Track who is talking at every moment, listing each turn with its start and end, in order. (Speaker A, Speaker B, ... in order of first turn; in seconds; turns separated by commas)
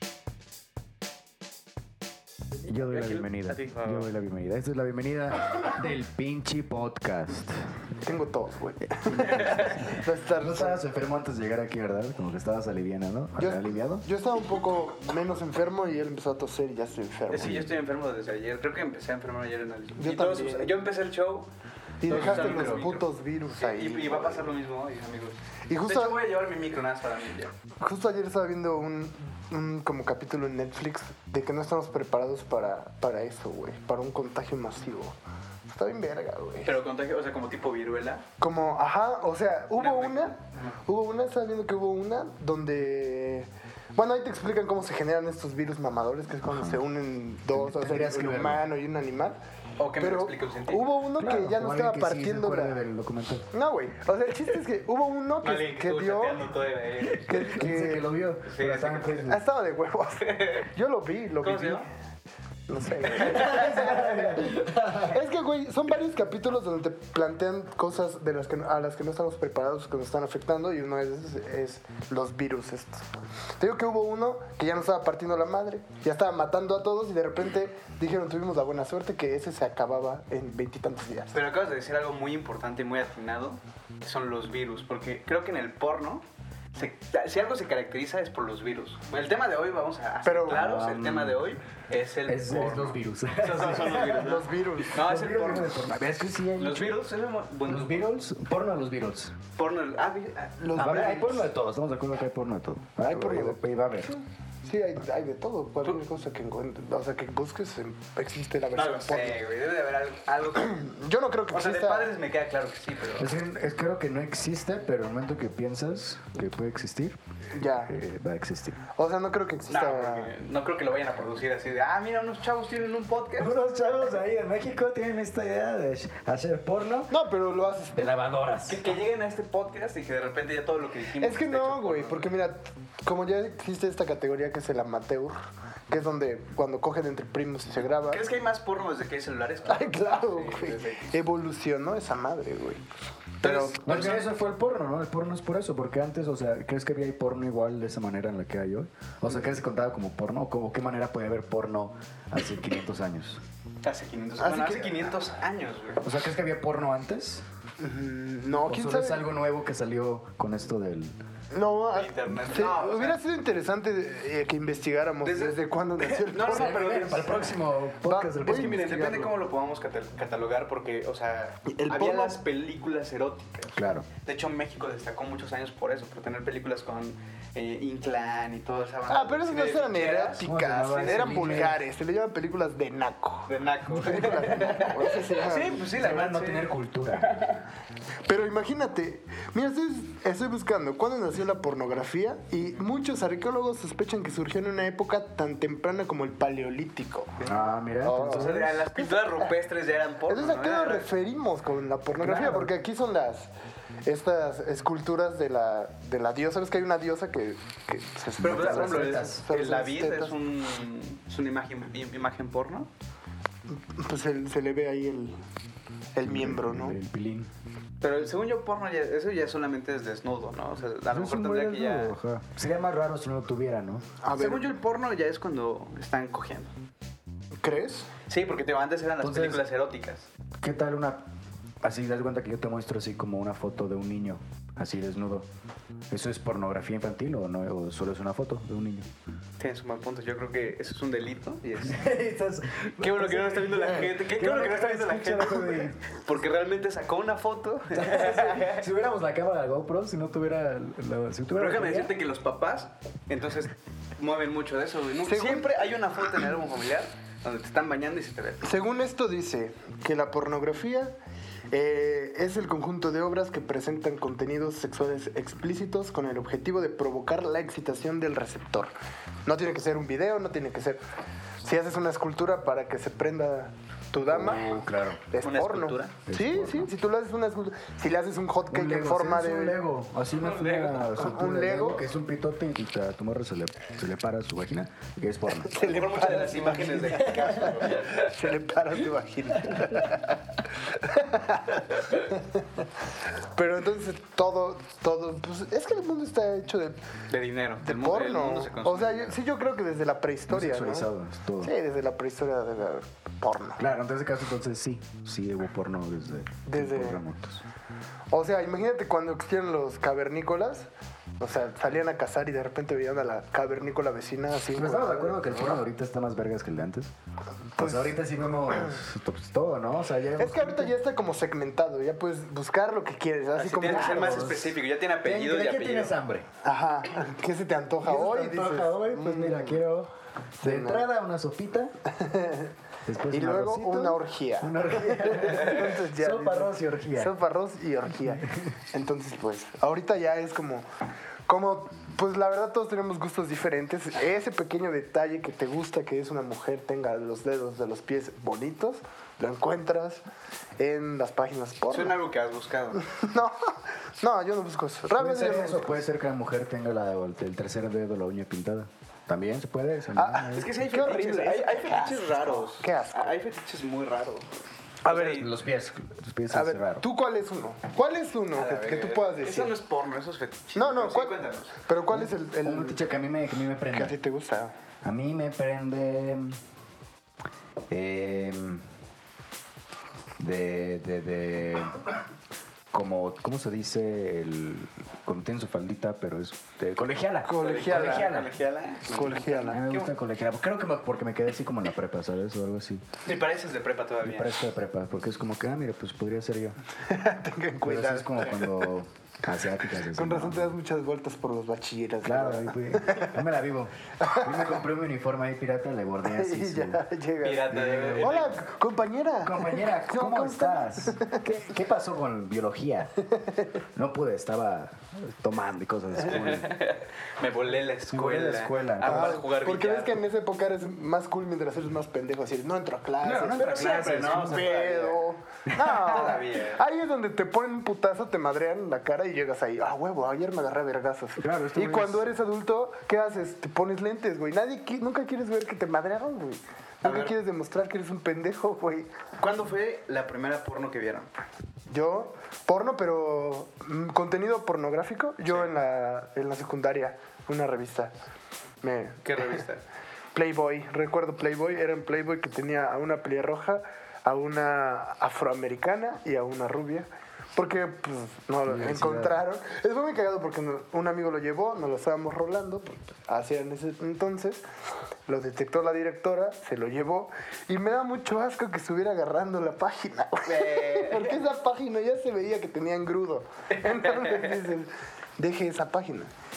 Speaker A: 2.7-7.7, Speaker B: 2.9-4.1, Speaker C: 8.0-10.8, Speaker B: 9.2-9.8, Speaker A: 10.4-14.1, Speaker C: 13.4-17.7, Speaker B: 17.3-21.5, Speaker A: 17.4-17.7, Speaker C: 20.0-20.8, Speaker C: 22.0-24.5, Speaker B: 22.0-27.5, Speaker A: 22.1-22.4, Speaker C: 25.7-26.2, Speaker C: 27.8-36.8, Speaker B: 36.6-38.2, Speaker C: 38.4-49.4, Speaker B: 39.8-40.8, Speaker A: 46.5-46.8, Speaker A: 47.5-48.6, Speaker B: 49.8-50.9, Speaker C: 50.0-52.8, Speaker A: 51.2-53.5, Speaker C: 53.5-56.4, Speaker B: 55.4-57.5, Speaker A: 57.0-59.4, Speaker C: 57.2-58.1, Speaker B: 58.5-59.3, Speaker C: 59.2-61.9, Speaker B: 60.3-60.6, Speaker B: 61.4-61.9, Speaker C: 62.7-81.4, Speaker A: 63.1-65.2, Speaker B: 63.2-64.3, Speaker B: 81.3-96.0, Speaker C: 90.2-90.7, Speaker A: 90.5-91.4, Speaker A: 92.3-97.0, Speaker C: 93.9-95.0, Speaker B: 96.6-98.0, Speaker A: 97.6-99.4, Speaker B: 99.6-101.3, Speaker C: 100.6-101.5, Speaker A: 100.8-104.1, Speaker C: 103.0-109.4, Speaker B: 108.8-110.9, Speaker C: 110.6-112.1, Speaker B: 111.5-113.3, Speaker A: 113.2-117.2, Speaker C: 117.5-118.0, Speaker A: 117.9-118.8, Speaker C: 119.0-120.3, Speaker B: 119.7-123.6, Speaker A: 123.4-127.2, Speaker C: 127.1-128.1, Speaker A: 127.9-128.9, Speaker B: 128.7-132.3, Speaker C: 131.2-138.2, Speaker B: 137.8-141.1, Speaker C: 139.7-142.8, Speaker C: 143.4-144.2, Speaker B: 143.4-144.2, Speaker A: 143.8-153.4, Speaker B: 153.8-156.0, Speaker C: 154.4-155.1, Speaker A: 156.0-157.4, Speaker C: 157.8-159.3, Speaker A: 158.7-161.1, Speaker C: 161.5-166.9, Speaker B: 161.9-163.2, Speaker B: 165.2-167.6, Speaker A: 166.5-169.0, Speaker C: 168.0-169.4, Speaker B: 168.4-181.7, Speaker C: 171.7-172.4, Speaker A: 173.8-174.1, Speaker C: 179.1-185.8, Speaker A: 180.4-181.8, Speaker B: 183.5-187.6, Speaker A: 184.0-184.7, Speaker A: 185.9-187.3, Speaker C: 188.3-197.4, Speaker B: 197.4-197.7, Speaker A: 197.4-198.7, Speaker C: 198.0-199.6, Speaker B: 198.3-201.1, Speaker C: 200.3-203.5, Speaker A: 202.2-202.7, Speaker C: 204.1-210.4, Speaker A: 208.4-209.4, Speaker B: 208.4-212.9, Speaker C: 213.7-215.4, Speaker C: 216.1-217.0, Speaker A: 216.2-217.5, Speaker B: 218.0-222.2, Speaker A: 221.1-224.1, Speaker C: 224.2-224.7, Speaker B: 224.3-226.7, Speaker C: 227.6-228.1, Speaker B: 228.3-230.3, Speaker A: 229.2-229.6, Speaker A: 230.6-231.2, Speaker A: 231.8-235.5, Speaker A: 236.1-239.1, Speaker B: 239.6-242.1, Speaker A: 241.8-246.0, Speaker B: 243.0-248.9, Speaker A: 247.9-252.1, Speaker B: 251.5-258.6, Speaker C: 255.3-255.8, Speaker C: 258.6-261.1, Speaker C: 261.7-268.9, Speaker C: 269.5-271.0, Speaker C: 271.6-279.8, Speaker A: 274.3-275.2, Speaker B: 275.4-276.2, Speaker A: 276.3-276.9, Speaker A: 278.7-285.7, Speaker B: 280.4-281.1, Speaker C: 281.1-282.1, Speaker C: 285.7-292.9, Speaker B: 285.7-288.3, Speaker C: 293.4-297.0, Speaker B: 297.3-299.4, Speaker C: 297.8-301.1, Speaker A: 300.5-301.7, Speaker C: 301.6-303.9, Speaker A: 303.8-307.6, Speaker C: 306.6-307.2, Speaker C: 308.3-315.8, Speaker A: 314.7-317.1, Speaker C: 317.8-318.9, Speaker A: 317.8-320.9, Speaker C: 320.4-324.7, Speaker B: 323.6-326.1, Speaker A: 323.8-326.5, Speaker C: 326.6-329.8, Speaker A: 328.0-331.9, Speaker C: 330.6-331.1, Speaker C: 332.1-332.7, Speaker A: 333.1-337.3, Speaker C: 333.3-340.9, Speaker A: 338.3-338.8, Speaker C: 341.5-350.2, Speaker C: 350.8-352.2, Speaker B: 351.9-353.0, Speaker C: 353.0-356.0, Speaker A: 355.1-360.7, Speaker C: 360.1-363.4, Speaker B: 360.4-364.5, Speaker C: 365.1-365.4, Speaker B: 365.1-365.5, Speaker A: 365.3-367.0, Speaker C: 366.5-369.7, Speaker B: 368.6-371.8, Speaker C: 370.8-373.0, Speaker A: 372.1-374.2, Speaker C: 373.9-374.7, Speaker A: 375.0-376.6, Speaker A: 377.9-378.9, Speaker A: 380.4-382.1, Speaker A: 382.9-388.5, Speaker C: 387.4-388.3, Speaker B: 387.6-390.1, Speaker C: 389.1-389.8, Speaker A: 389.7-393.0, Speaker B: 393.2-394.5, Speaker A: 394.2-396.8, Speaker C: 397.1-398.7, Speaker A: 397.8-400.7, Speaker C: 400.1-403.4, Speaker A: 402.2-407.0, Speaker C: 404.2-404.8, Speaker C: 406.2-411.4, Speaker B: 407.4-408.7, Speaker A: 407.7-408.4, Speaker A: 409.4-413.2, Speaker C: 413.3-413.7, Speaker A: 413.9-416.8, Speaker B: 416.3-420.2, Speaker A: 418.1-419.4, Speaker C: 419.0-439.1, Speaker A: 423.2-424.8, Speaker B: 423.5-425.2, Speaker A: 425.7-426.1, Speaker B: 426.0-426.8, Speaker A: 431.4-432.3, Speaker B: 437.0-437.3, Speaker B: 439.4-441.3, Speaker C: 441.9-448.1, Speaker C: 448.8-449.6, Speaker B: 449.2-449.8, Speaker C: 450.4-464.6, Speaker A: 458.7-459.4, Speaker C: 465.3-476.3, Speaker B: 470.5-471.4, Speaker B: 473.8-474.7